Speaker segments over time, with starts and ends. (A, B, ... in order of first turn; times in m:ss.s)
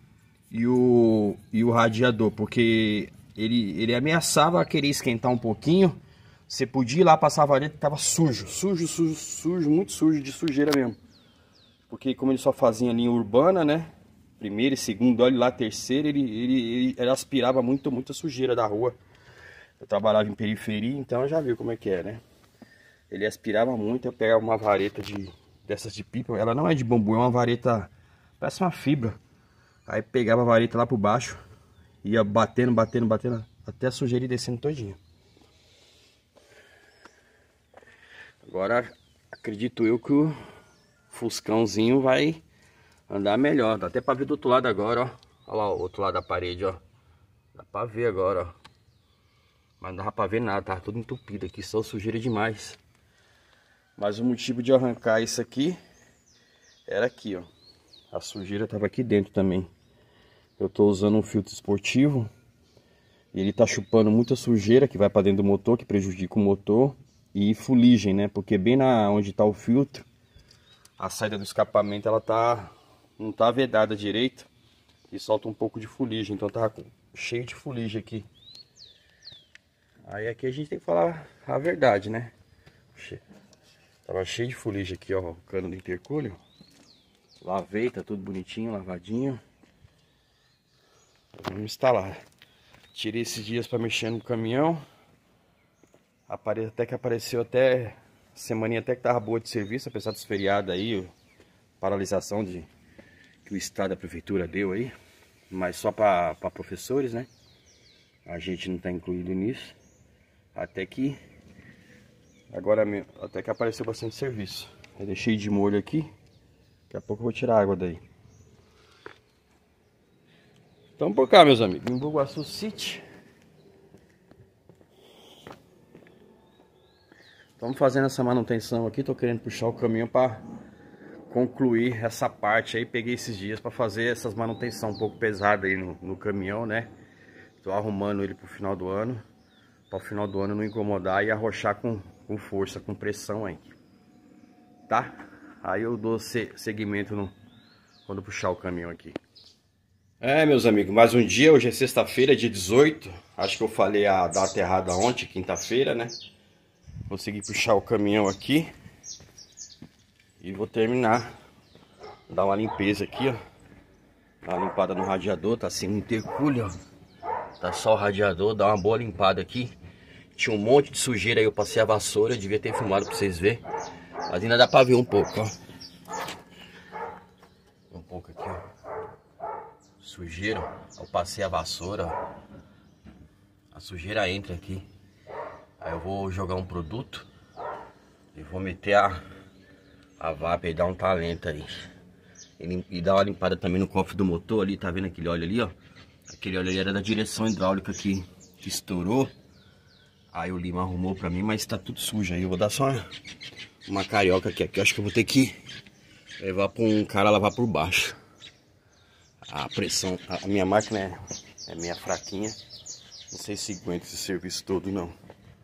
0:00.5-0:11.0 A
0:11.9-0:19.0 A
0:19.8-0:22.2 A
0:23.1-0:29.2 A
0:29.9-0:31.4 A
0:32.0-0:35.0 A
0:38.4-0:40.4 A
0:41.1-0:42.4 A
0:43.1-0:46.8 A
0:47.6-0:48.5 A
0:49.8-0:52.8 A
0:54.0-0:55.8 A
0:56.9-0:57.5 A
0:58.1-0:59.7 A
1:00.6-1:02.3 A
1:03.3-1:10.1 A
1:11.0-1:14.5 A
1:15.1-1:18.3 A
1:20.1-1:22.3 A
1:23.0-1:23.2 A
1:24.1-1:26.4 A
1:27.4-1:29.4 A
1:31.4-1:32.2 A
1:32.9-1:34.8 A
1:36.3-1:41.1 A
1:41.8-1:42.7 A
1:43.4-1:44.9 A
1:45.5-1:47.3 A
1:48.3-1:49.8 A
1:50.6-1:51.2 A
1:52.5-1:56.1 A
1:56.9-1:58.0 A
2:01.0-2:03.0 A
2:07.6-2:10.4 A
2:11.3-2:16.9 A
2:17.6-2:19.2 A
2:19.9-2:23.7 A
2:24.9-2:27.3 A
2:28.1-2:29.2 A
2:30.2-2:36.2 A
2:37.1-2:38.7 A
2:40.4-2:41.3 A
2:42.3-2:43.4 A
2:44.4-2:46.7 A
2:47.6-2:49.7 A
2:50.4-2:53.6 A
2:54.3-2:55.5 A
2:57.9-2:58.6 A
3:00.0-3:02.2 A
3:03.7-3:04.9 A
3:05.8-3:07.3 A
3:08.3-3:09.2 A
3:10.2-3:11.8 A
3:12.6-3:15.7 A
3:16.3-3:19.3 A
3:20.3-3:23.1 A
3:23.9-3:25.6 A
3:26.4-3:28.2 A
3:29.5-3:32.6 A
3:33.3-3:35.1 A